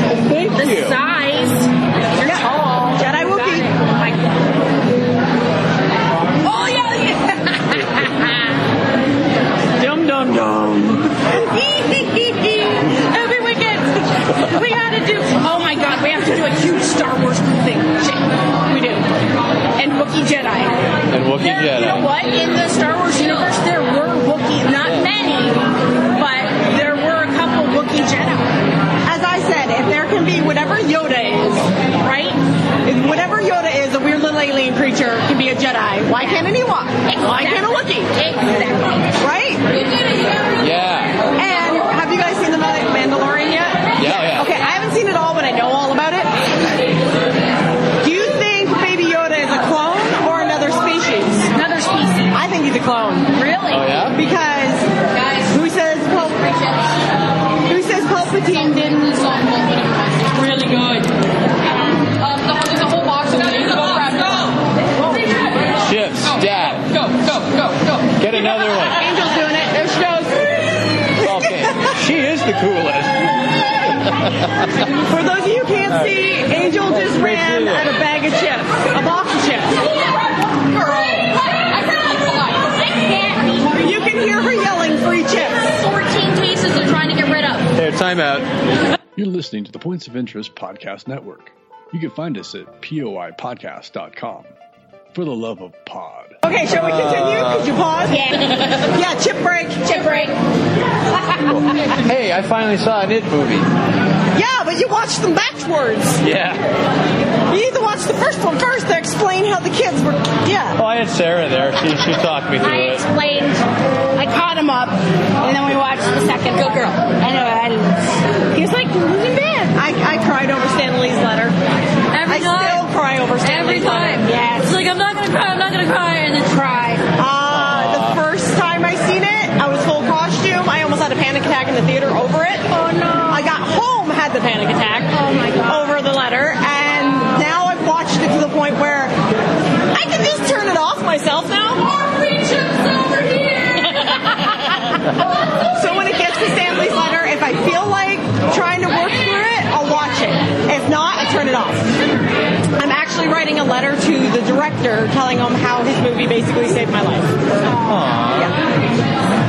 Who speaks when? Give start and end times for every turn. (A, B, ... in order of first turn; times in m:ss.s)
0:00.2-0:01.0 A
0:00.5-0:04.5 B
0:02.2-0:03.7 C
0:06.4-0:08.3 B
0:09.8-0:11.2 C
0:11.5-0:18.3 B
0:18.7-0:19.1 C
0:19.8-0:20.8 B
0:21.1-0:22.1 A
0:21.4-0:28.5 B
0:24.8-0:25.1 A
0:29.0-0:31.7 C
0:32.0-0:32.4 B
0:32.8-0:38.1 C
0:36.2-0:36.5 B
0:37.1-0:39.1 B
0:39.2-0:39.6 C
0:40.6-0:41.2 A
0:41.4-0:46.3 C
0:44.0-0:44.5 A
0:48.0-0:51.5 C
0:51.5-0:52.4 B
0:52.3-0:53.4 C
0:53.3-0:53.8 B
0:53.7-0:54.2 A
0:54.1-0:54.9 C
0:55.1-0:55.5 D
0:55.5-0:56.8 C
0:57.7-0:59.2 C
0:58.5-1:01.1 D
1:02.2-1:04.6 D
1:05.8-1:06.9 A
1:06.2-1:08.9 D
1:08.2-1:09.0 A
1:08.9-1:11.9 C
1:11.2-1:14.7 A
1:15.1-1:19.8 C
1:15.9-1:18.0 A
1:19.9-1:22.7 D
1:22.7-1:23.9 B
1:23.8-1:25.7 C
1:25.7-1:27.7 D
1:27.8-1:28.5 A
1:29.2-1:34.5 E
1:35.1-1:36.4 E
1:36.4-1:38.2 C
1:36.7-1:37.7 A
1:38.1-1:38.6 B
1:38.9-1:40.0 C
1:39.8-1:40.4 B
1:41.2-1:41.6 B
1:41.5-1:43.7 A
1:44.3-1:46.2 C
1:46.2-1:46.6 A
1:47.5-1:50.8 C
1:50.8-1:53.0 A
1:52.6-1:53.6 B
1:54.2-1:59.8 B
1:56.6-1:57.0 D
1:59.8-2:01.6 C
2:02.1-2:02.9 F
2:02.3-2:04.2 C
2:03.4-2:06.6 F
2:04.2-2:04.8 B
2:06.5-2:07.0 B
2:07.2-2:12.7 C
2:07.5-2:08.2 A
2:12.7-2:13.5 B
2:13.3-2:19.1 C
2:15.1-2:15.9 B
2:19.9-2:22.1 C
2:25.7-2:31.9 C
2:32.8-2:37.4 C
2:37.6-2:38.1 B
2:37.8-2:38.6 A